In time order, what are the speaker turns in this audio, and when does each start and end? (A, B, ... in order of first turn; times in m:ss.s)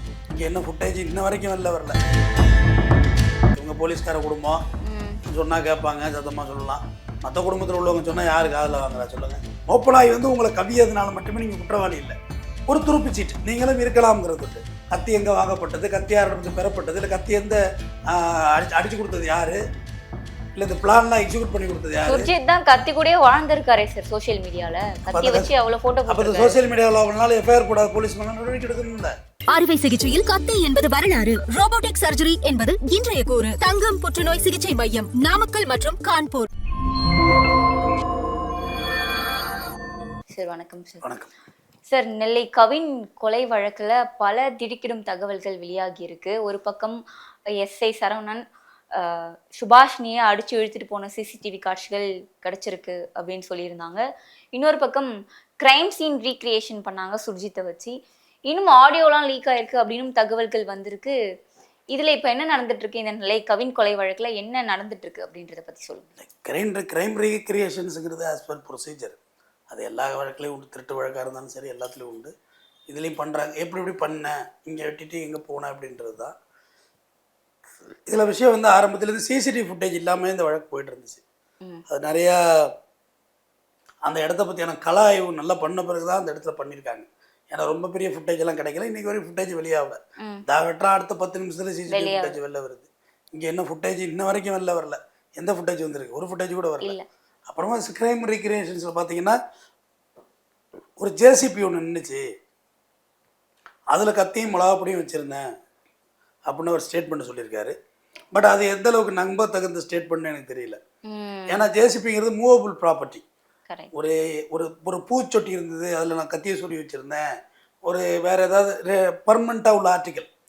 0:00.3-0:02.0 A
0:03.5-0:04.6 A
0:04.8-0:05.2 B
0:05.2-0:12.2 A
0:12.7-0:19.6 A
0:20.6-0:22.3 A
0:22.1-0:26.6 B
0:25.1-0:25.5 A
0:26.1-0:29.1 A
0:29.5-0:36.5 C
0:40.3-0:41.0 B
0:41.0-0:41.3 A
0:41.9-0:54.0 B
0:54.5-0:55.1 B
0:55.6-0:57.9 B
0:58.5-1:01.2 B
1:01.9-1:06.1 B
1:06.2-1:09.2 A
1:09.7-1:12.3 A
1:12.9-1:16.3 A
1:18.1-1:21.2 A
1:21.9-1:22.7 A
1:24.0-1:37.0 A
1:31.9-1:32.4 B
1:36.8-1:37.1 B
1:37.5-1:39.4 A
1:41.0-1:42.2 A
1:43.9-1:45.4 A
1:46.5-1:47.8 A
1:48.3-1:50.8 A
1:51.1-1:51.6 B
1:51.5-1:53.2 A
1:53.9-1:57.2 A
1:57.8-2:00.3 A